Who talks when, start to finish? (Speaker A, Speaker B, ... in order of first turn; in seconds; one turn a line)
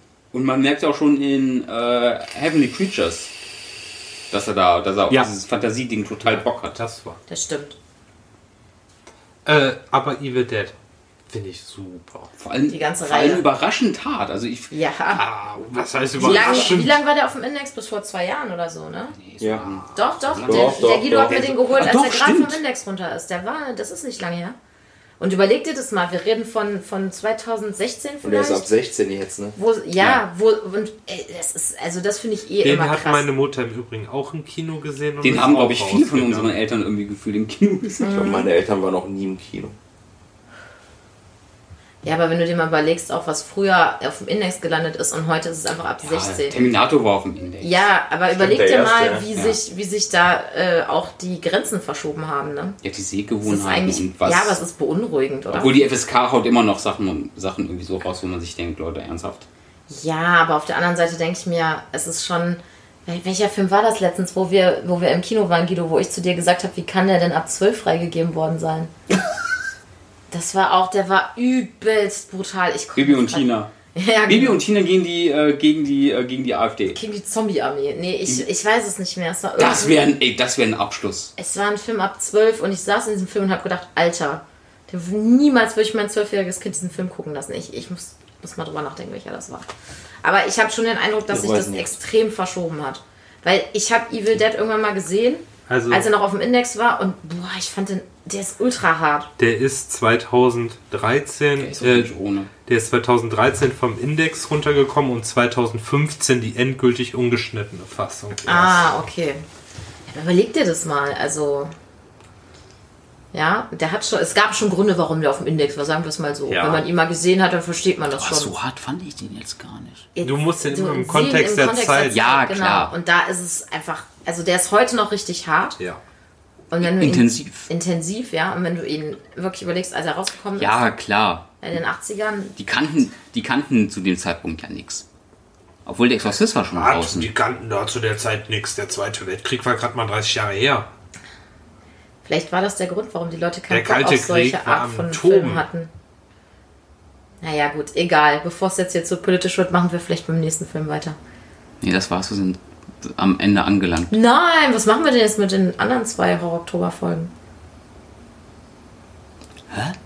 Speaker A: 0.3-3.3
Speaker A: 4.3-6.8
Speaker B: 6.2-7.2
Speaker C: 7.3-7.8
Speaker B: 9.5-10.8
Speaker B: 11.3-12.3
Speaker A: 12.4-14.7
Speaker C: 12.7-13.4
Speaker C: 14.7-15.2
Speaker B: 15.1-17.0
Speaker A: 16.2-16.8
Speaker C: 16.2-19.2
Speaker A: 19.1-22.6
Speaker D: 19.4-19.7
Speaker C: 19.9-24.6
Speaker D: 20.4-21.5
Speaker C: 25.2-28.7
Speaker D: 28.2-29.6
Speaker C: 29.6-33.3
Speaker B: 32.6-36.6
Speaker A: 35.2-38.2
Speaker C: 38.0-38.5
Speaker D: 38.0-39.8
Speaker C: 42.0-46.6
Speaker A: 46.0-47.9
Speaker C: 47.6-52.8
Speaker D: 48.3-49.3
Speaker A: 52.8-54.6
Speaker C: 53.4-55.9
Speaker A: 55.5-59.5
Speaker C: 59.9-68.9
Speaker C: 70.3-74.6
Speaker A: 73.0-73.7
Speaker A: 74.3-77.0
Speaker C: 76.9-80.0
Speaker A: 79.6-81.3
Speaker C: 81.4-89.7
Speaker C: 90.2-99.3
Speaker D: 91.3-91.9
Speaker B: 95.7-96.1
Speaker B: 99.4-102.1
Speaker A: 101.6-102.5
Speaker B: 102.7-108.9
Speaker C: 108.5-109.4
Speaker C: 110.1-111.7
Speaker C: 113.3-118.5
Speaker A: 116.5-116.8
Speaker A: 118.2-120.1
Speaker C: 120.2-125.8
Speaker B: 120.2-122.2
Speaker A: 122.1-122.9
Speaker C: 126.7-130.8
Speaker A: 126.8-127.7
Speaker A: 130.6-131.5
Speaker C: 131.6-132.6
Speaker A: 132.6-135.1
Speaker A: 135.8-137.3
Speaker B: 136.8-140.9
Speaker C: 142.2-145.9
Speaker B: 143.7-145.7
Speaker C: 147.4-151.2
Speaker A: 151.8-154.1
Speaker C: 154.1-157.3
Speaker A: 159.7-160.0